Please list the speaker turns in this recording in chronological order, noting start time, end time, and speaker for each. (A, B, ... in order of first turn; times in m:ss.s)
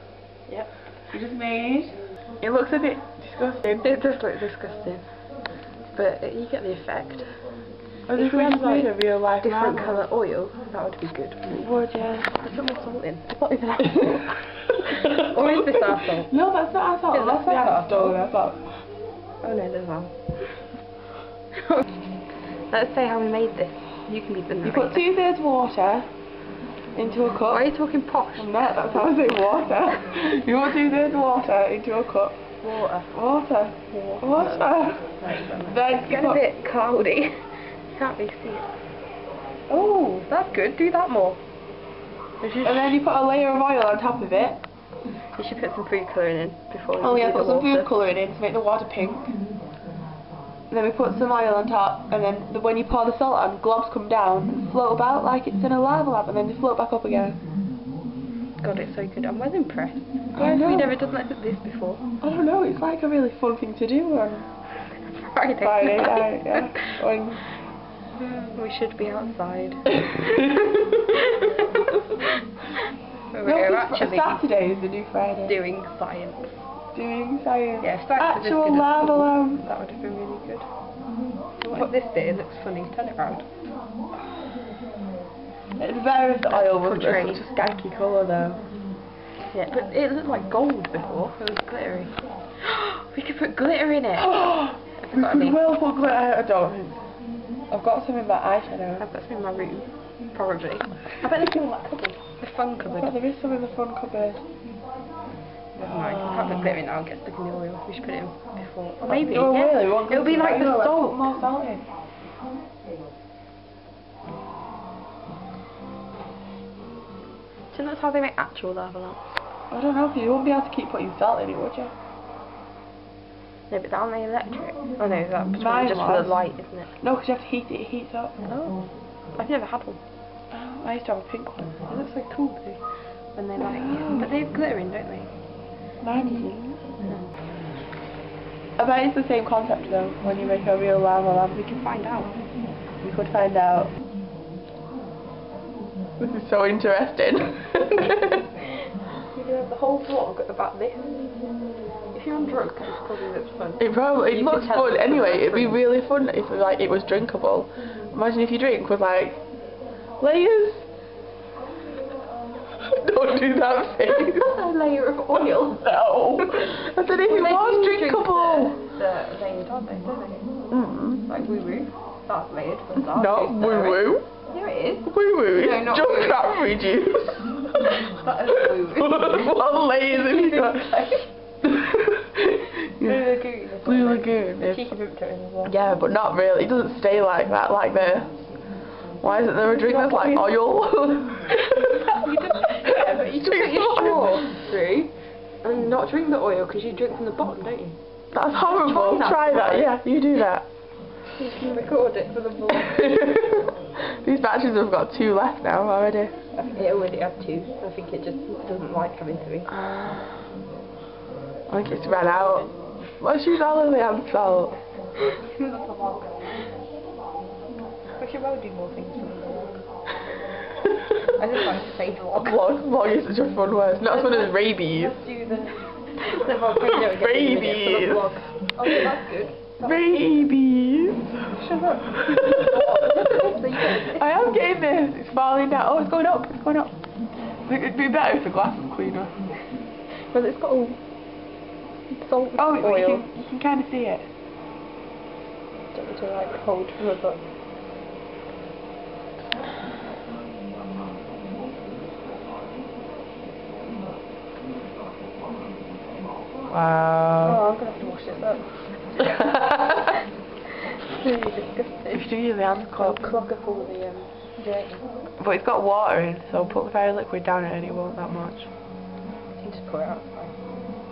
0:01.1-0:04.0 A
0:03.8-0:05.1 B
0:05.9-0:07.3 B
0:08.1-0:10.0 A
0:08.1-0:11.6 B
0:11.5-0:12.5 A
0:12.3-0:16.3 B
0:13.5-0:18.8 A
0:17.1-0:18.2 B
0:19.4-0:20.2 B
0:22.7-0:25.1 B
0:24.6-0:26.1 A
0:27.0-0:27.7 A
0:27.5-0:29.2 B
0:28.4-0:32.4 A
0:32.6-0:33.1 B
0:33.1-0:36.4 A
0:33.9-0:38.7 B
0:39.7-0:41.4 B
0:42.4-0:43.0 B
0:42.6-0:44.6 A
0:45.3-0:48.0 B
0:47.0-0:49.3 A
0:50.7-0:57.4 A
0:58.6-1:02.0 B
1:00.4-1:00.9 A
1:02.2-1:04.5 A
1:04.9-1:06.9 B
1:05.6-1:07.4 A
1:08.2-1:11.7 B
1:13.3-1:14.4 B
1:13.4-1:15.6 A
1:15.5-1:16.5 B
1:16.9-1:19.7 A
1:17.8-1:20.7 B
1:21.6-1:23.5 B
1:25.8-1:28.6 A
1:26.5-1:27.4 B
1:29.5-1:34.4 B
1:34.2-1:37.0 A
1:35.0-1:35.6 B
1:37.7-1:39.0 A
1:39.0-1:43.2 B
1:42.8-1:44.4 A
1:45.8-1:46.7 A
1:45.8-1:51.4 B
1:49.0-1:51.8 A
1:57.7-1:59.2 B
1:59.7-2:01.9 A
2:03.7-2:06.9 B
2:05.6-2:06.4 A
2:07.0-2:08.4 A
2:08.4-2:08.8 B
2:09.4-2:10.0 B
2:10.5-2:11.8 A
2:11.9-2:12.8 B
2:13.4-2:15.3 B
2:13.7-2:14.3 A
2:16.0-2:16.8 A
2:18.8-2:21.7 A
2:21.5-2:22.4 B
2:23.0-2:23.9 A
2:26.2-2:28.4 A
2:29.3-2:31.2 B
2:32.1-2:35.8 B
2:33.8-2:39.4 A
2:40.2-2:40.9 A
2:42.9-2:44.5 A
2:44.1-2:50.5 B
2:45.3-2:48.8 A
2:50.7-2:51.2 A
2:51.3-2:56.9 B
2:53.0-2:54.2 A
2:55.0-2:58.0 A
2:57.8-3:01.3 B
2:58.7-3:01.1 A
3:01.6-3:03.2 A
3:02.7-3:05.8 B
3:03.8-3:04.9 A
3:05.6-3:08.3 A
3:09.2-3:12.1 A
3:09.6-3:10.6 B
3:11.8-3:15.1 B
3:13.2-3:14.5 A
3:15.6-3:18.0 B
3:18.3-3:20.6 A
3:18.6-3:19.9 B
3:21.4-3:23.3 B
3:22.8-3:26.4 A
3:26.5-3:29.7 B
3:29.7-3:30.3 A
3:31.7-3:34.8 A
3:35.2-3:36.6 B
3:38.2-3:39.8 B
3:41.4-3:42.7 B
3:42.4-3:45.2 A
3:44.0-3:50.1 B
3:46.8-3:48.3 A
3:49.8-3:51.6 A
3:51.5-3:54.5 B
3:52.2-3:57.0 A
3:57.6-3:59.4 A
4:00.1-4:01.0 B
4:02.1-4:03.2 B
4:02.6-4:04.3 A
4:05.9-4:07.4 B
4:16.7-4:17.6 A
4:17.4-4:20.2 B
4:21.0-4:22.3 B
4:22.1-4:23.2 A
4:23.0-4:25.1 B
4:25.4-4:28.7 A
4:29.6-4:30.6 B